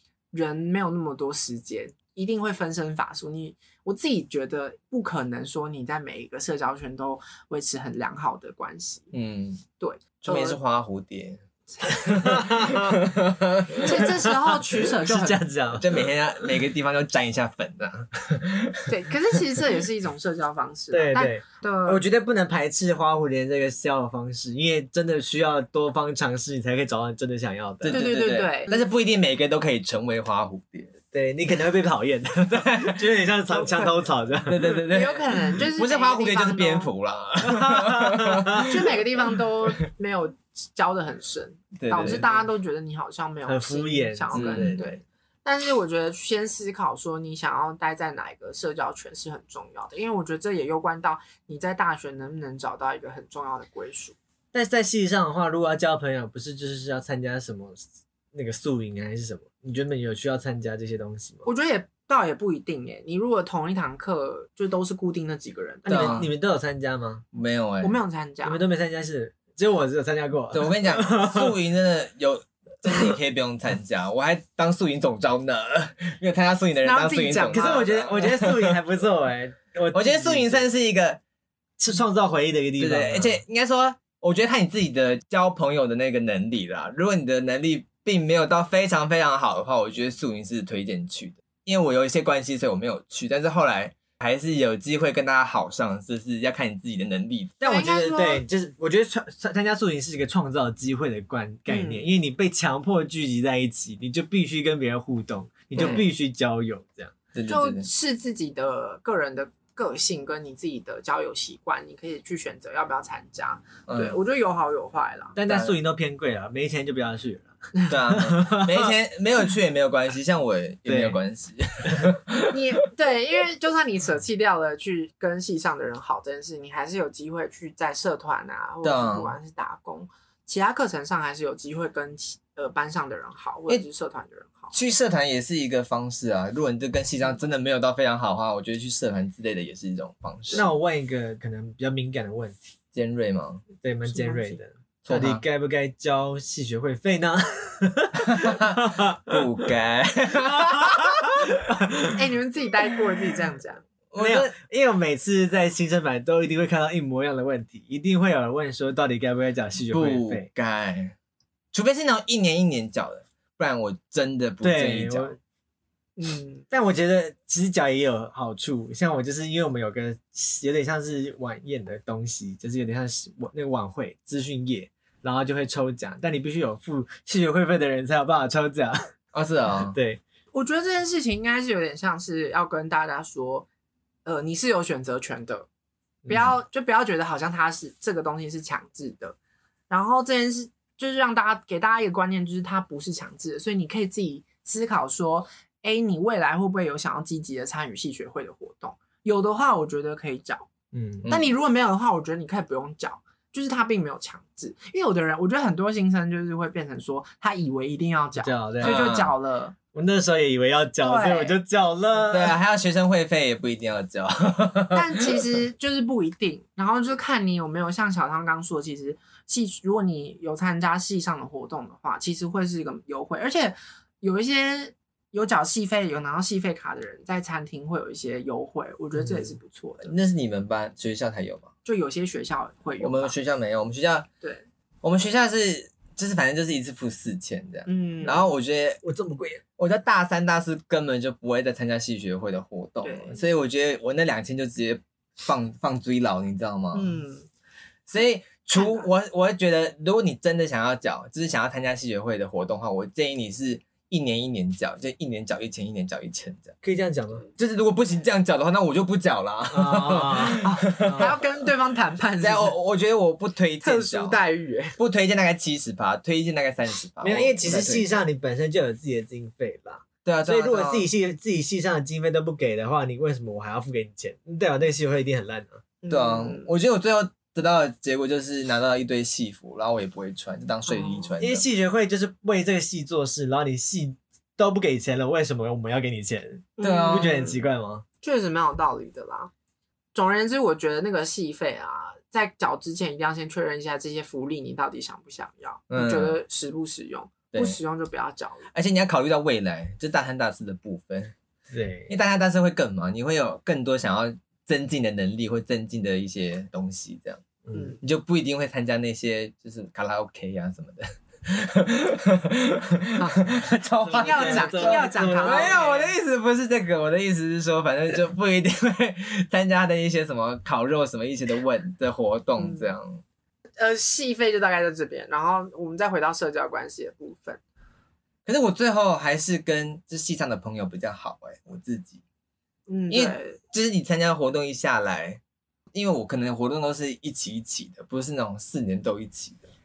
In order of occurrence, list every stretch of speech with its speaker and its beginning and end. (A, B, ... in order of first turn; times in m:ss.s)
0:00.3-0:09.1 A
0:09.1-0:09.6 B
0:09.8-0:10.6 A
0:10.2-0:14.1 B
0:11.7-0:12.4 A
0:12.1-0:13.1 C
0:13.8-0:15.4 A
0:13.9-0:16.1 C
0:15.7-0:18.9 B
0:18.9-0:22.0 A
0:20.9-0:28.0 C
0:27.8-0:28.8 A
0:27.8-0:31.0 B
0:31.1-0:34.9 C
0:32.5-0:33.0 B
0:33.5-0:34.1 A
0:34.4-0:38.8 B
0:34.9-0:36.9 A
0:37.4-0:38.7 C
0:38.6-0:54.2 A
0:41.8-0:42.3 B
0:42.0-0:42.3 C
0:43.4-0:45.0 C
0:44.3-0:44.8 B
0:54.5-1:01.4 C
1:01.4-1:06.2 A
1:05.8-1:06.3 B
1:05.9-1:07.2 C
1:07.3-1:07.9 B
1:07.8-1:08.6 A
1:08.4-1:11.5 C
1:10.5-1:18.8 B
1:16.8-1:17.9 A
1:17.5-1:20.6 C
1:19.9-1:21.2 B
1:21.8-1:23.4 C
1:22.8-1:37.6 B
1:37.6-1:47.1 C
1:37.6-1:38.4 A
1:41.7-1:42.1 A
1:45.7-1:46.0 B
1:47.3-1:47.9 B
1:47.5-1:55.4 A
1:53.9-1:54.2 B
1:55.4-1:57.5 C
1:55.4-1:55.8 B
1:57.9-2:02.6 B
1:58.0-1:58.9 C
2:00.8-2:01.2 C
2:02.5-2:14.7 A
2:08.8-2:09.3 B
2:14.7-2:20.7 B
2:20.5-2:22.7 C
2:22.9-2:23.6 B
2:23.8-2:29.4 C
2:24.0-2:24.6 A
2:25.0-2:25.4 B
2:28.3-2:31.5 B
2:30.5-2:32.3 C
2:32.1-2:33.8 A
2:34.1-2:34.5 B
2:34.1-2:40.5 C
2:39.9-2:41.1 B
2:41.7-2:45.4 B
2:44.6-2:45.4 C
2:46.2-2:46.6 A
2:46.7-2:59.1 C
2:59.3-3:00.0 B
2:59.8-3:00.2 C
3:00.5-3:03.7 A
3:04.2-3:05.7 A
3:06.2-3:06.5 C
3:06.3-3:09.4 A
3:09.9-3:20.7 A
3:20.9-3:21.4 C
3:21.3-3:29.8 A
3:28.4-3:29.1 C
3:28.8-3:29.3 B
3:29.9-3:32.6 C
3:31.0-3:31.6 A
3:32.3-3:35.4 B
3:34.9-3:50.1 A
3:49.2-3:49.6 C
3:50.0-3:51.7 B
3:51.8-3:53.3 A
3:53.0-3:54.3 B
3:55.0-3:59.0 B
3:57.8-3:58.4 A
3:59.0-3:59.6 C
3:59.8-4:07.2 B
4:03.0-4:03.4 A
4:06.9-4:07.5 A
4:08.1-4:16.8 B
4:08.8-4:09.1 A
4:16.8-4:17.4 C
4:17.6-4:21.4 B
4:19.7-4:21.3 C
4:20.7-4:22.7 A
4:22.4-4:24.4 B
4:23.8-4:25.0 A
4:25.0-4:28.1 B
4:27.2-4:35.8 C
4:30.2-4:31.1 B
4:36.0-4:36.7 A
4:36.1-4:41.6 B
4:40.9-4:41.3 A
4:41.4-4:48.0 C
4:46.8-4:47.6 A
4:46.8-4:47.4 B
4:48.2-4:49.5 A
4:50.1-4:58.7 A
4:55.9-4:56.4 B
4:57.5-4:57.8 B
4:58.7-5:01.3 B
5:01.7-5:02.1 C
5:02.1-5:07.4 B
5:07.6-5:08.0 C
5:07.7-5:08.0 A
5:08.0-5:23.2 B
5:14.0-5:15.8 C
5:14.2-5:16.1 A
5:22.6-5:22.9 A
5:23.8-5:27.6 A
5:28.4-5:32.2 B
5:32.9-5:33.6 A
5:33.1-5:35.4 B
5:35.9-5:39.7 B